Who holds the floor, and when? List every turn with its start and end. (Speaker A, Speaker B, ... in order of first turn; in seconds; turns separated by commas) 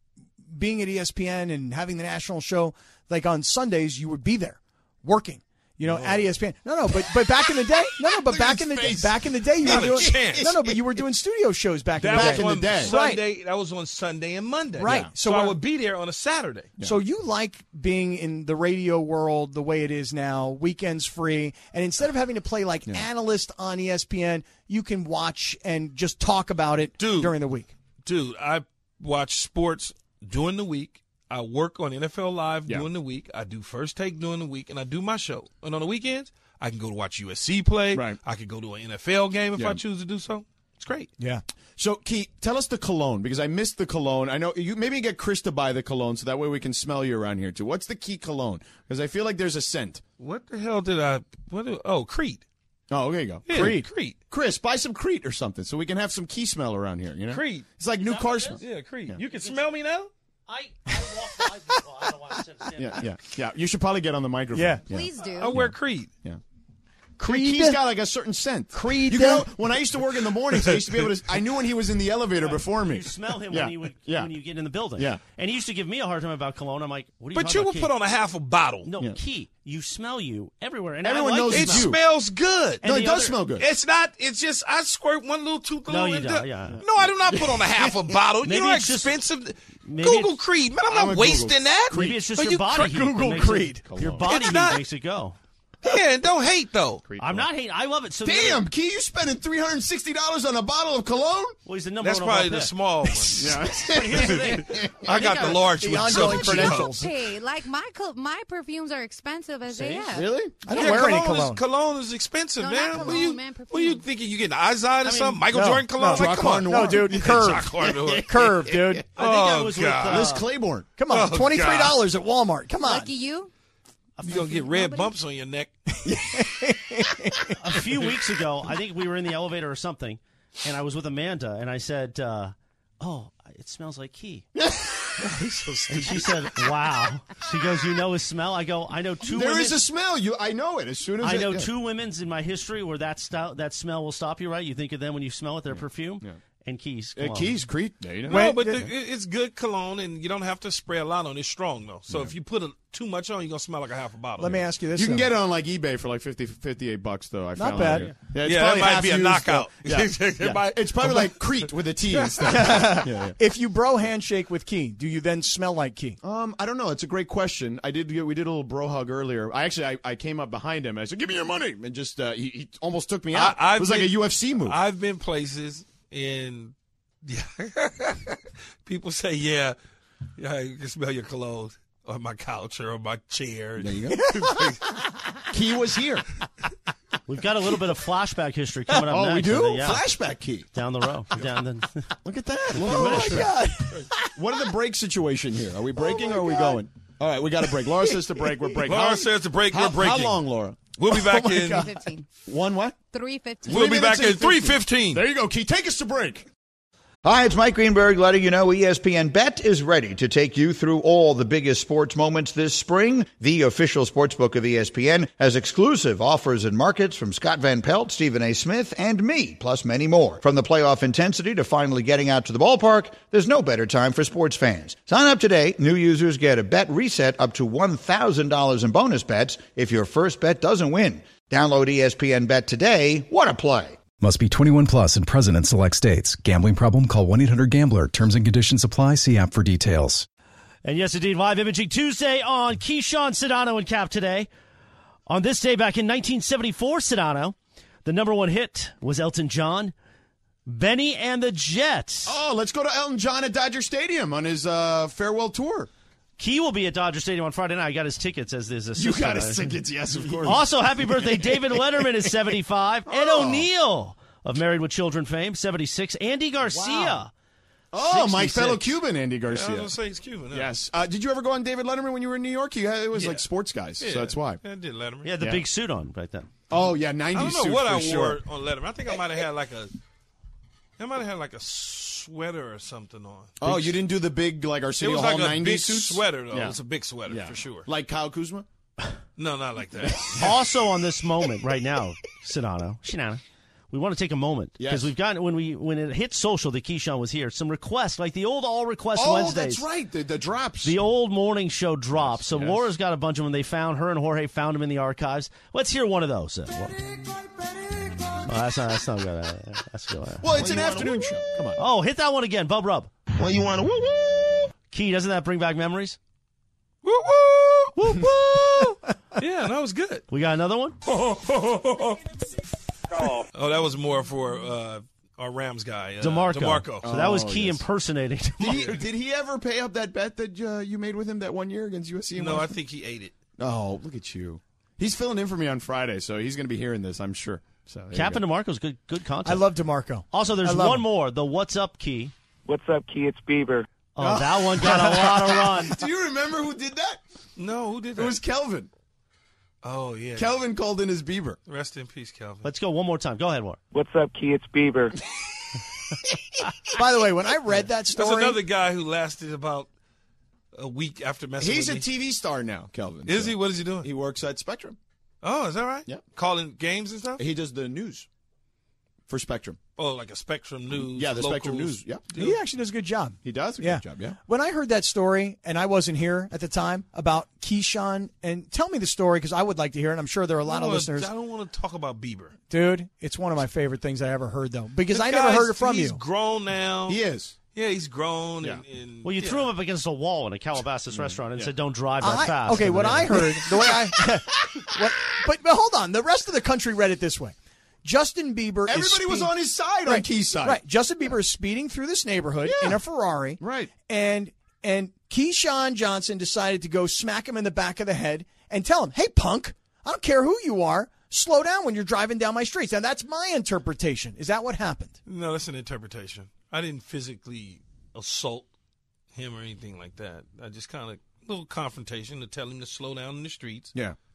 Speaker A: 0.5-13.2, Speaker B: 5.8-6.3, Speaker B: 8.0-10.6, Speaker C: 9.6-10.8, Speaker B: 12.0-16.7, Speaker C: 12.1-12.9, Speaker A: 14.8-15.6, Speaker C: 14.8-15.1, Speaker A: 16.8-27.7, Speaker B: 27.0-27.4, Speaker B: 28.1-41.1, Speaker C: 37.9-38.2, Speaker C: 39.6-39.8, Speaker C: 41.8-50.0, Speaker B: 50.2-52.4, Speaker C: 52.9-53.7, Speaker B: 53.5-54.2, Speaker A: 53.5-53.9, Speaker C: 54.3-59.2, Speaker B: 57.3-57.7, Speaker D: 58.0-58.6, Speaker B: 58.6-60.1, Speaker D: 59.3-59.6, Speaker D: 60.5-63.1, Speaker C: 62.8-66.4, Speaker A: 64.5-64.8, Speaker E: 64.9-65.6, Speaker B: 65.2-66.1, Speaker A: 67.2-67.8, Speaker C: 67.2-74.3, Speaker A: 68.7-69.5, Speaker B: 70.5-71.1, Speaker D: 72.4-77.9, Speaker C: 75.0-75.2, Speaker B: 77.3-78.9, Speaker D: 78.8-81.9, Speaker C: 81.0-82.0, Speaker B: 81.5-93.4, Speaker C: 82.8-83.7, Speaker D: 82.8-83.4, Speaker D: 85.9-86.8, Speaker C: 86.7-88.0, Speaker D: 88.4-89.1, Speaker D: 89.8-90.4, Speaker C: 90.9-92.2, Speaker D: 91.9-95.4, Speaker A: 92.8-93.8, Speaker C: 93.5-94.6, Speaker B: 94.3-94.8, Speaker B: 95.8-97.0, Speaker C: 97.0-97.5, Speaker D: 97.2-98.7, Speaker C: 98.2-101.6, Speaker D: 101.7-102.7, Speaker B: 102.0-107.0, Speaker C: 103.3-105.3, Speaker D: 103.9-104.7, Speaker A: 105.0-107.1, Speaker E: 106.1-111.0, Speaker C: 110.1-110.6, Speaker A: 110.6-111.6, Speaker B: 110.7-120.3, Speaker E: 112.6-114.0, Speaker D: 115.0-115.4, Speaker A: 115.5-119.1, Speaker C: 116.1-117.8, Speaker C: 118.4-119.0, Speaker D: 119.2-120.5, Speaker C: 120.0-120.9, Speaker A: 121.0-123.1, Speaker B: 121.1-122.0, Speaker E: 122.8-123.5, Speaker B: 124.2-125.7, Speaker E: 124.3-125.1, Speaker A: 126.1-127.6, Speaker D: 127.6-134.4, Speaker C: 134.6-136.2, Speaker B: 135.2-136.4, Speaker D: 135.9-139.8, Speaker C: 139.2-141.7, Speaker D: 141.2-147.6, Speaker C: 145.7-146.4, Speaker C: 147.2-148.6, Speaker A: 148.3-148.9, Speaker B: 148.3-154.7, Speaker C: 152.1-152.3, Speaker A: 154.4-155.3, Speaker C: 154.9-163.4, Speaker A: 157.6-158.1, Speaker B: 158.1-162.8, Speaker A: 162.5-166.2, Speaker C: 166.2-174.8, Speaker B: 173.3-179.8, Speaker B: 180.4-184.8, Speaker C: 183.8-184.4, Speaker A: 184.2-185.4, Speaker C: 185.5-186.3, Speaker D: 187.3-190.0, Speaker C: 189.1-190.7, Speaker D: 190.7-192.1, Speaker C: 192.2-193.6, Speaker A: 192.8-194.3, Speaker B: 193.0-194.1, Speaker C: 194.3-200.8, Speaker A: 196.0-196.8, Speaker A: 197.8-198.1, Speaker B: 198.9-200.4, Speaker B: 200.9-201.9, Speaker A: 201.1-202.0, Speaker E: 201.7-202.3, Speaker C: 202.5-203.0, Speaker E: 203.1-203.8, Speaker C: 203.6-206.5, Speaker B: 203.7-205.2, Speaker F: 207.2-234.1, Speaker G: 234.2-240.3, Speaker D: 240.8-244.5, Speaker D: 245.3-249.9, Speaker D: 250.7-252.4, Speaker C: 252.3-255.9, Speaker D: 256.4-259.8, Speaker C: 258.9-262.1, Speaker D: 260.4-267.3, Speaker C: 263.1-263.7, Speaker C: 267.9-269.9, Speaker D: 268.1-268.8, Speaker B: 269.5-270.7, Speaker C: 270.5-274.6, Speaker B: 273.1-273.4, Speaker B: 274.0-275.3, Speaker D: 275.2-276.5, Speaker C: 275.4-275.6, Speaker C: 276.7-278.4, Speaker B: 277.3-279.9, Speaker B: 281.0-283.6, Speaker C: 283.6-288.7, Speaker B: 285.0-287.9, Speaker B: 289.4-290.5, Speaker C: 290.1-290.5, Speaker D: 290.4-299.9, Speaker C: 294.8-295.1, Speaker C: 299.1-301.0, Speaker D: 300.8-307.1, Speaker C: 302.2-302.9, Speaker D: 308.4-311.1, Speaker C: 310.4-311.8, Speaker D: 311.8-313.1, Speaker H: 313.3-314.7, Speaker D: 314.9-316.2, Speaker B: 317.0-320.2, Speaker D: 320.3-321.0, Speaker C: 321.1-322.2, Speaker B: 323.5-327.1, Speaker D: 326.2-329.0, Speaker C: 327.0-327.9, Speaker C: 328.6-332.8, Speaker B: 332.4-333.4, Speaker C: 333.6-338.4, Speaker D: 338.1-339.7, Speaker A: 339.4-341.1, Speaker D: 340.3-342.3, Speaker H: 342.7-343.9, Speaker D: 344.1-346.0, Speaker C: 344.2-347.2, Speaker B: 347.6-348.4, Speaker C: 348.1-348.9, Speaker B: 349.8-350.6, Speaker C: 350.4-351.6, Speaker B: 351.7-352.7, Speaker D: 352.6-353.8, Speaker H: 353.9-355.1, Speaker A: 356.9-358.6, Speaker B: 358.1-359.9, Speaker B: 360.7-362.1, Speaker C: 361.6-365.0, Speaker B: 363.3-364.1, Speaker B: 365.4-367.4, Speaker C: 367.4-368.3, Speaker C: 369.3-369.8, Speaker B: 370.0-372.6, Speaker C: 370.9-372.2, Speaker A: 372.4-381.3, Speaker C: 373.4-374.4, Speaker B: 380.6-382.6, Speaker A: 382.7-386.2, Speaker B: 385.1-387.2, Speaker C: 387.1-387.6, Speaker B: 387.8-389.7, Speaker D: 389.2-393.4, Speaker C: 391.1-391.7, Speaker A: 392.2-399.5, Speaker C: 393.0-395.1, Speaker C: 398.9-400.8, Speaker A: 400.1-415.2, Speaker C: 402.6-403.0, Speaker C: 403.6-403.9, Speaker B: 415.3-418.7, Speaker B: 419.3-423.9